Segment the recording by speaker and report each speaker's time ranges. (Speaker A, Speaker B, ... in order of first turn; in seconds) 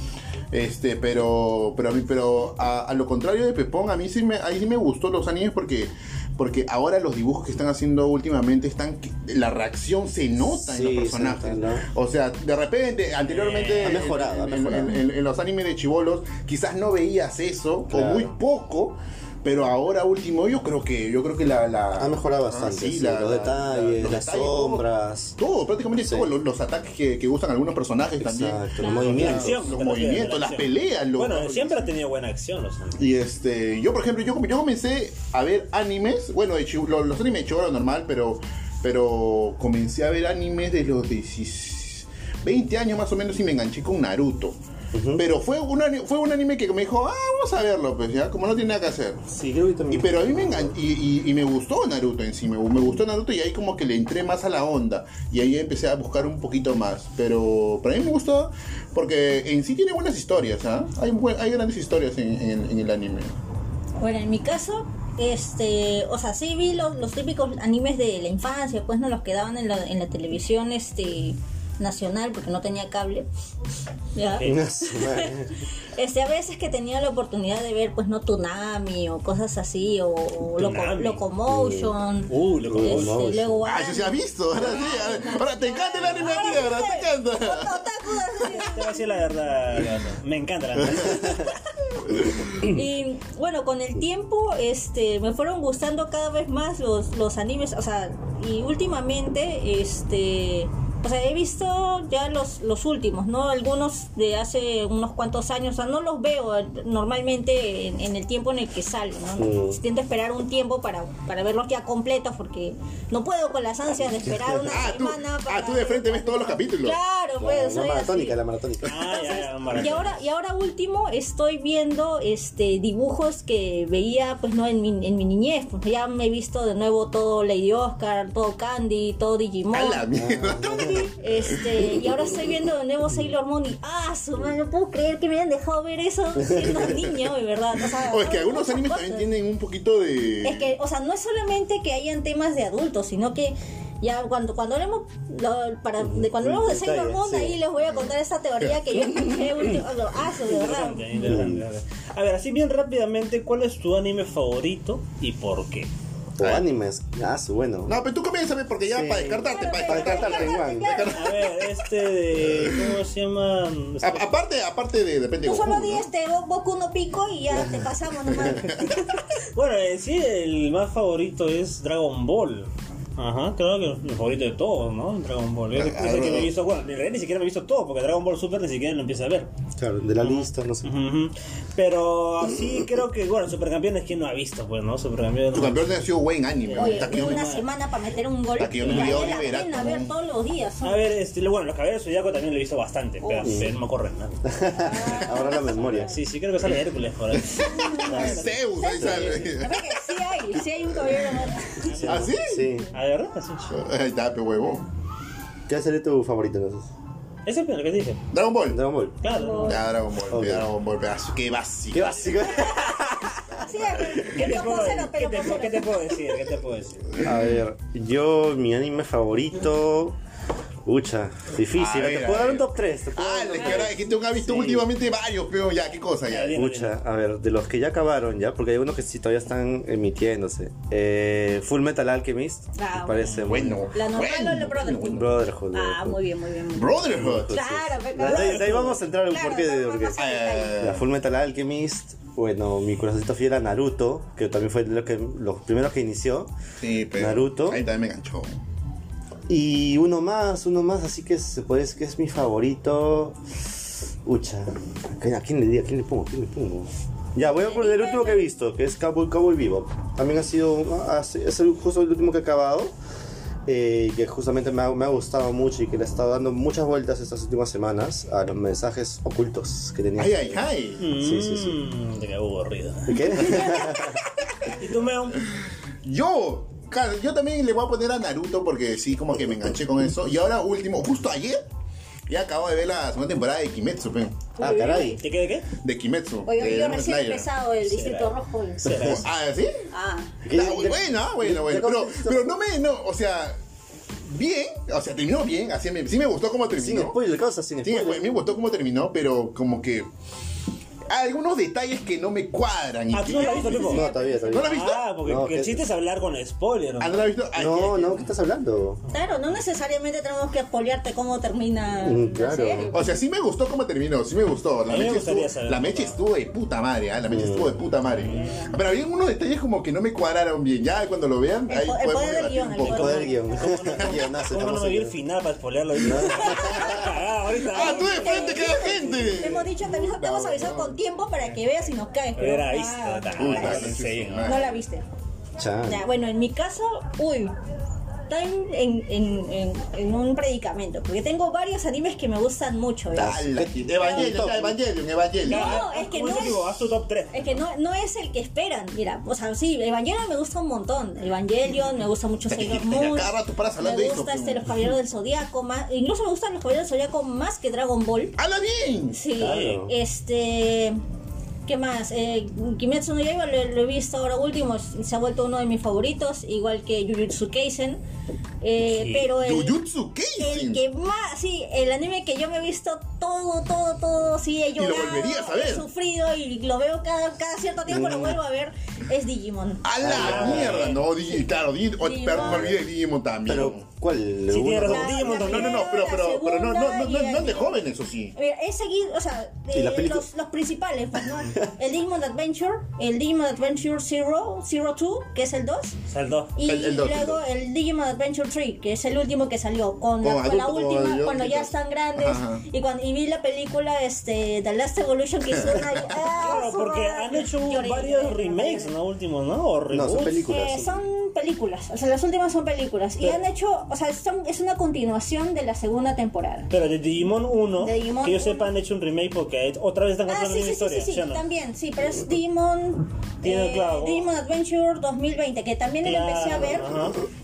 Speaker A: 0.5-24.8, 25.4-31.9, 33.0-44.5, 45.1-49.2, 49.9-63.4, 83.6-88.5, 114.7-117.0, 129.7-131.1, 131.7-132.2, 138.0-140.7, 156.4-156.7, 157.9-161.6, 162.4-162.9, 164.0-166.1, 168.3-169.0, 175.7-176.5, 185.5-187.6, 188.6-190.1, 197.3-199.9, 202.0-202.7, 203.7-204.8, 208.3-208.8, 209.6-212.3, 217.2-217.4, 221.7-226.6, 233.4-235.3, 236.7-237.6, 240.2-241.0, 246.8-248.6, 270.2-271.0, 275.6-281.6, 282.3-284.4, 285.8-287.5, 288.9-289.8, 290.5-293.6, 294.3-297.1, 297.8-300.1, 301.1-305.1, 307.0-308.3, 312.9-323.3, 327.7-331.0, 333.4-334.7, 343.1-345.8, 352.5-354.7, 358.4-359.2, 369.3-370.8, 374.8-375.9, 379.8-383.8, 385.3-388.3, 396.6-397.4, 400.2-402.6, 405.6-406.1
Speaker B: 10.4-11.9, 13.8-15.0, 17.9-18.4, 22.0-25.4, 25.9-26.3, 28.2-29.7, 44.9-45.2, 49.3-50.8, 74.4-75.5, 81.5-81.9, 82.6-83.6, 109.4-109.8, 114.2-114.7, 117.4-119.2, 130.1-131.0, 136.4-136.9, 146.0-147.6, 151.2-151.7, 156.4-157.9, 158.9-161.1, 179.8-180.9, 193.4-193.7, 194.4-196.1, 199.1-199.3, 201.9-202.9, 205.7-206.9, 208.7-209.2, 210.3-210.7, 211.9-214.1, 217.2-220.2, 220.8-224.8, 226.5-233.9, 235.1-236.2, 237.1-240.2, 240.8-246.5, 247.1-247.8, 249.5-253.4, 254.2-262.9, 263.6-271.8, 273.1-274.2, 284.6-285.2, 288.8-289.2, 290.4-292.5, 296.7-298.3, 303.8-305.9, 307.5-309.0, 312.0-313.0, 317.3-317.8, 322.9-325.2, 325.9-327.1, 335.6-336.0, 343.1-344.8, 359.4-359.9, 377.9-378.4, 380.0-380.9, 382.3-382.8, 383.4-385.3, 389.7-390.3, 409.9-411.0
Speaker C: 13.2-14.2, 28.9-33.1, 80.6-81.2, 82.3-83.2, 88.5-91.5, 118.8-120.2, 150.4-155.9, 161.1-164.3, 169.5-179.5, 180.2-186.0, 186.7-187.6, 188.8-189.5, 190.8-194.4, 196.0-199.5, 201.8-202.3, 202.9-203.8, 207.4-208.2, 209.2-209.8, 214.3-217.1, 223.6-223.9, 224.4-224.8, 226.3-227.0, 233.2-233.6, 238.2-238.9, 271.0-273.9, 274.8-275.4, 285.2-285.7, 287.8-289.3, 303.1-304.1, 304.6-307.3, 314.9-316.2, 322.9-328.9, 332.4-334.6, 345.4-347.5, 359.4-359.8, 368.9-369.3, 380.0-381.1, 384.5-385.9, 396.1-396.5, 406.4-410.4, 416.7-421.4, 423.4-424.3, 426.0-427.2
Speaker D: 28.8-29.1, 64.0-73.3, 74.1-89.0, 92.5-118.4, 118.9-130.0, 131.0-139.3, 140.4-151.2, 159.4-161.5, 165.4-168.9, 186.8-191.0, 193.2-193.6, 194.7-196.1, 197.7-198.1, 198.8-201.9, 209.2-209.8, 212.4-216.0, 232.8-233.3, 233.9-240.8, 257.5-258.5, 284.6-285.2, 286.4-288.9, 289.9-290.3, 303.2-304.6, 309.1-313.0, 318.4-318.7, 321.7-323.4, 326.4-327.0, 327.6-335.0, 335.9-337.5, 338.3-343.4, 344.0-344.4, 345.4-346.6, 347.3-358.4, 359.1-361.0, 361.6-368.0, 368.6-369.8, 370.4-379.9, 382.0-382.8, 384.9-387.8, 388.3-395.9, 396.5-408.9, 410.5-416.7, 417.8-418.7, 420.3-426.9